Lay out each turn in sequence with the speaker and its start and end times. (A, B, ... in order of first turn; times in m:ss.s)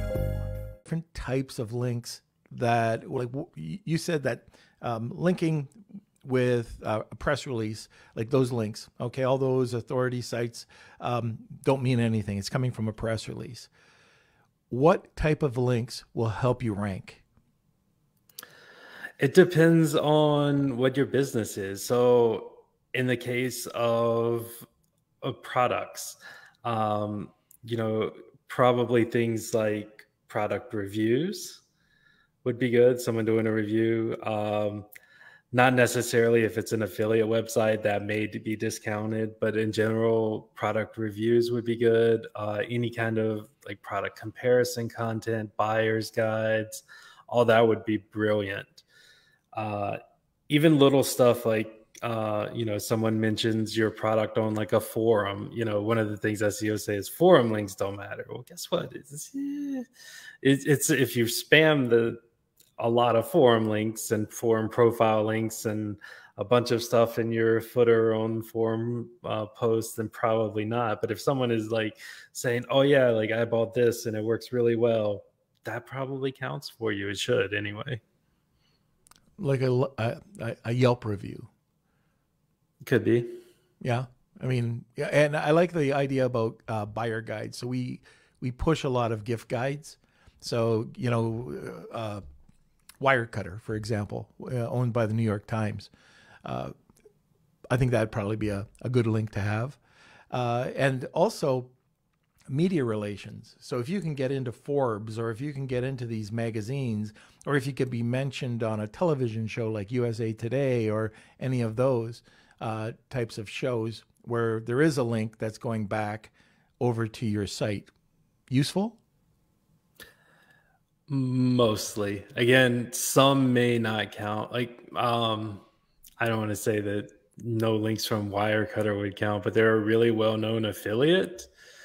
0:00.8-0:05.7 A
0:06.2-0:13.7 A
0:14.7-0:17.2 A
0:19.2-0:24.6 B
0:25.2-0:31.6 B
0:32.4-0:34.9 B
0:35.5-0:48.8 B
0:49.6-0:50.0 B
0:50.5-0:59.9 B
1:00.4-1:02.2 B
1:02.8-1:18.0 B
1:19.4-1:21.5 A
1:22.8-1:23.4 B
1:23.8-1:32.2 A
1:33.0-1:35.9 A
1:36.4-1:36.7 A
1:37.7-1:39.8 A
1:40.3-1:41.7 A
1:42.5-1:57.9 A
1:58.5-1:59.0 A
2:01.1-2:05.6 B
2:06.2-2:11.5 B